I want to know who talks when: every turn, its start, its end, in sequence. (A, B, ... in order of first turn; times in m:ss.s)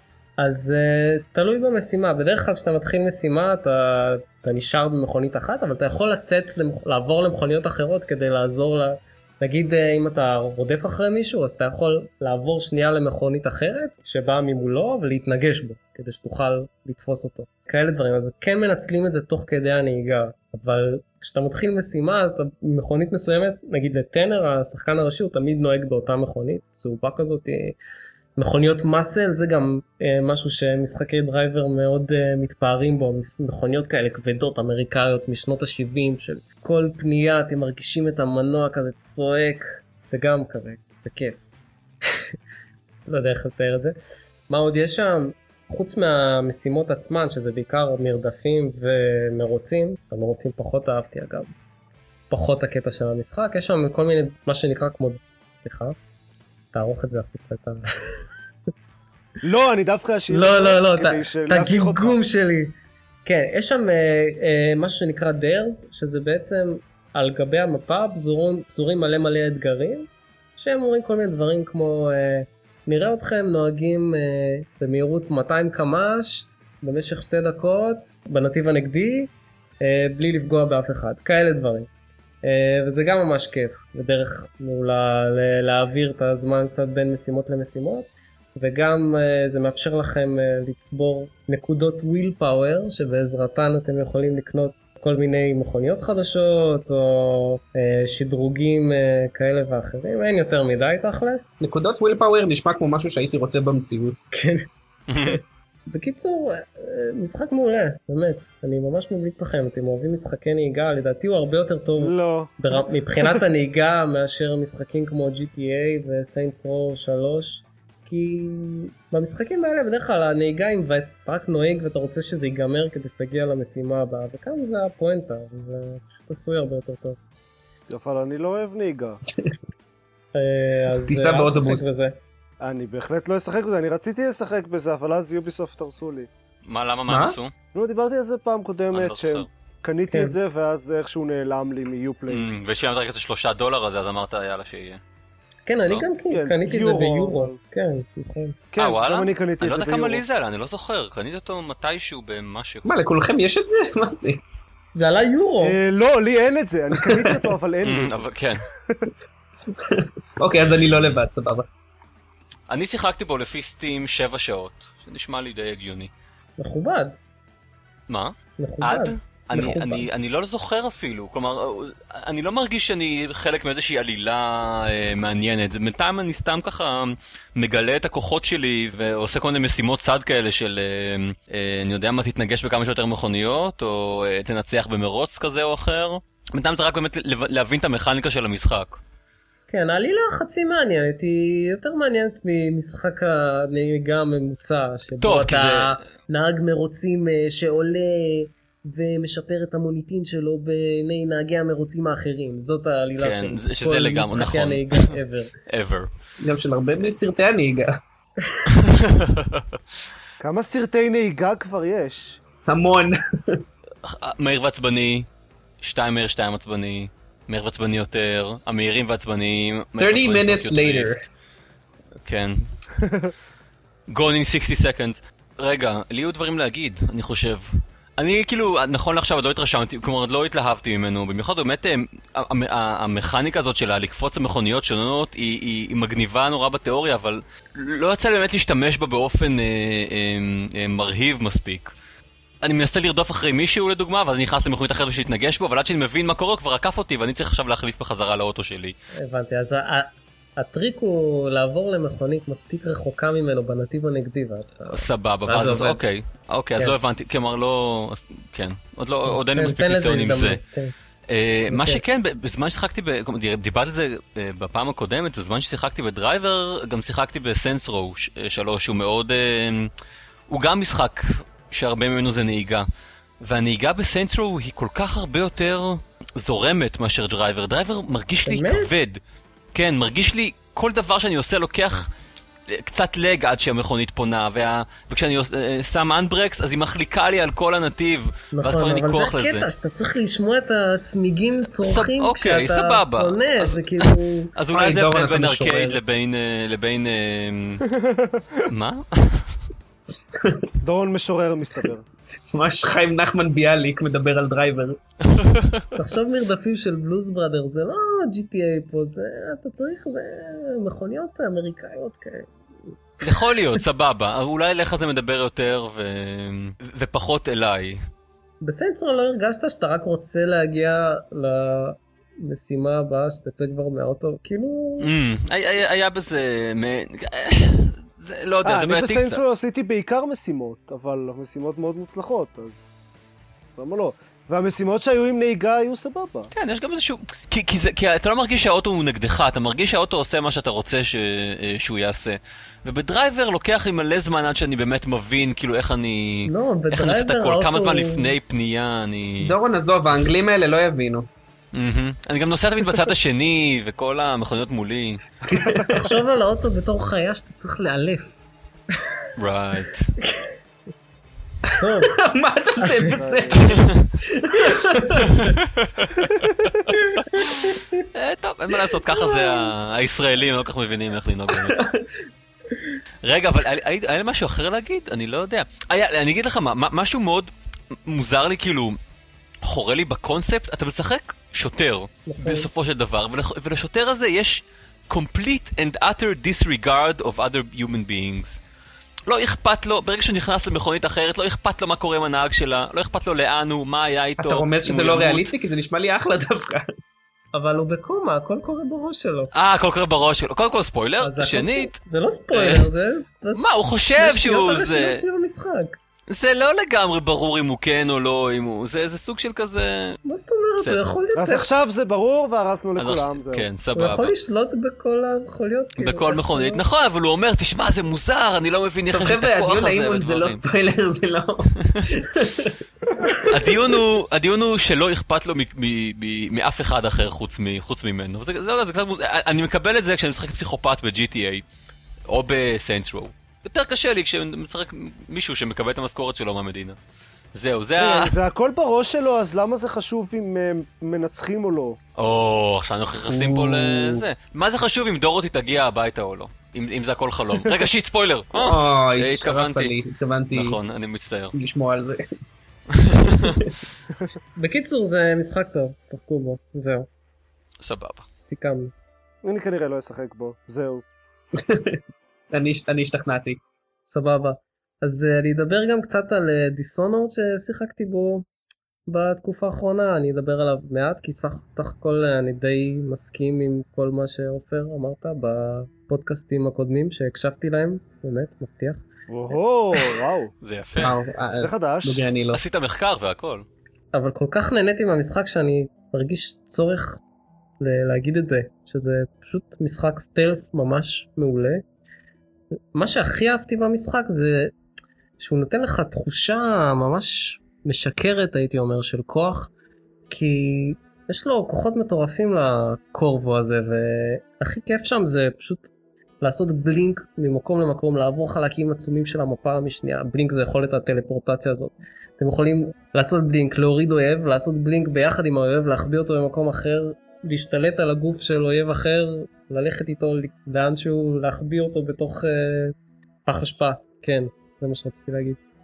0:00.4-0:27.8 A
0:28.4-0:41.4 A
0:43.0-0:44.0 A
0:44.5-0:51.6 A
0:52.3-0:56.0 A
0:56.7-0:58.2 A
0:59.4-1:02.2 B
1:00.3-1:21.9 A
1:22.4-1:41.6 A
1:41.6-1:44.2 C
1:44.3-1:44.6 A
1:45.1-1:45.4 D
1:45.2-2:07.2 A
1:52.0-1:53.4 B
2:07.9-2:09.2 B
2:10.3-2:12.2 A
2:11.0-2:11.9 C
2:12.6-2:16.3 B
2:16.6-2:17.5 D
2:17.1-2:17.4 C
2:17.7-2:22.5 B
2:18.9-2:19.5 D
2:20.1-2:20.4 A
2:22.3-2:25.0 D
2:25.7-2:28.6 A
2:26.3-2:27.6 B
2:28.7-2:30.2 B
2:28.8-2:32.9 D
2:32.8-2:34.4 C
2:34.9-2:35.8 A
2:35.6-2:39.1 B
2:37.0-2:37.5 C
2:37.8-2:38.6 D
2:39.7-2:41.7 C
2:40.8-2:41.2 D
2:42.7-2:46.1 D
2:46.6-2:47.2 A
2:48.1-3:09.0 D
2:48.6-2:50.0 A
3:09.7-3:25.5 A
3:15.2-3:16.0 D
3:23.2-3:25.2 D
3:25.7-3:26.1 D
3:26.4-3:28.0 C
3:28.7-3:29.8 D
3:30.4-3:32.4 B
3:32.7-3:33.6 C
3:34.0-3:35.3 D
3:35.8-3:41.3 D
3:40.0-3:41.2 C
3:42.2-3:42.7 D
3:43.0-3:43.3 B
3:44.1-4:01.9 D
4:02.6-4:09.0 D
4:09.2-4:16.0 A
4:14.9-4:20.6 D
4:19.3-4:20.9 A
4:21.3-4:29.9 D
4:21.7-4:22.0 A
4:30.5-4:32.9 D
4:33.4-4:39.2 D
4:38.5-4:38.9 A
4:39.7-4:42.1 D
4:42.7-4:49.7 D
4:48.5-4:54.5 A
4:51.8-4:57.9 D
4:54.7-4:56.0 C
4:58.0-4:58.6 B
4:58.7-4:59.5 D
5:00.8-5:02.0 B
5:02.5-5:05.0 C
5:05.2-5:05.9 D
5:06.0-5:12.5 A
5:13.2-5:18.0 D
5:18.6-5:25.1 A
5:25.0-5:29.4 D
5:28.6-5:32.9 B
5:33.8-5:36.5 B
5:36.5-5:49.6 D
5:46.5-5:48.3 A
5:49.4-5:51.3 C
5:51.7-5:55.2 D
5:55.5-5:56.1 C
5:55.9-5:58.4 A
5:59.4-6:00.1 D
6:00.2-6:00.5 A
6:01.8-6:02.1 A
6:01.9-6:05.5 C
6:03.0-6:03.8 B
6:03.6-6:04.1 D
6:05.3-6:11.8 D
6:06.9-6:07.2 A
6:09.1-6:09.7 A
6:11.5-6:12.1 C
6:13.2-6:17.5 D
6:18.0-6:19.0 D
6:19.6-6:28.6 D
6:22.3-6:22.7 A
6:29.3-6:35.5 D
6:34.4-6:36.9 C
6:37.5-6:39.5 A
6:39.5-6:42.0 D
6:41.2-6:46.0 A
6:42.5-6:42.9 D
6:43.6-6:45.2 D
6:46.3-6:50.2 D
6:50.2-6:51.7 A
6:51.4-6:53.7 B
6:53.0-6:54.3 D
6:54.0-6:56.8 A
6:56.0-7:00.6 D
6:59.1-7:02.8 C
7:01.8-7:02.1 D
7:03.4-7:11.6 D
7:12.3-7:17.0 D
7:17.5-7:18.4 D
7:18.0-7:22.0 B
7:22.2-7:30.0 D
7:28.5-7:30.8 C
7:30.5-7:31.5 D
7:31.5-7:32.2 C
7:32.9-7:33.6 D
7:33.4-7:33.7 C
7:34.6-7:37.1 A
7:37.8-7:38.3 D
7:38.4-7:38.9 A
7:39.4-7:41.0 B
7:41.5-7:42.0 C
7:42.5-7:43.6 C
7:44.1-7:48.5 A
7:49.1-7:59.0 A
7:59.3-8:00.5 B
8:00.6-8:01.2 D
8:01.0-8:02.6 C
8:01.6-8:02.2 B
8:02.5-8:03.7 D
8:04.1-8:07.2 A
8:07.8-8:11.8 A
8:12.9-8:14.7 A
8:15.4-8:19.7 A
8:20.3-8:25.9 A
8:26.4-8:43.0 A
8:43.5-8:45.6 A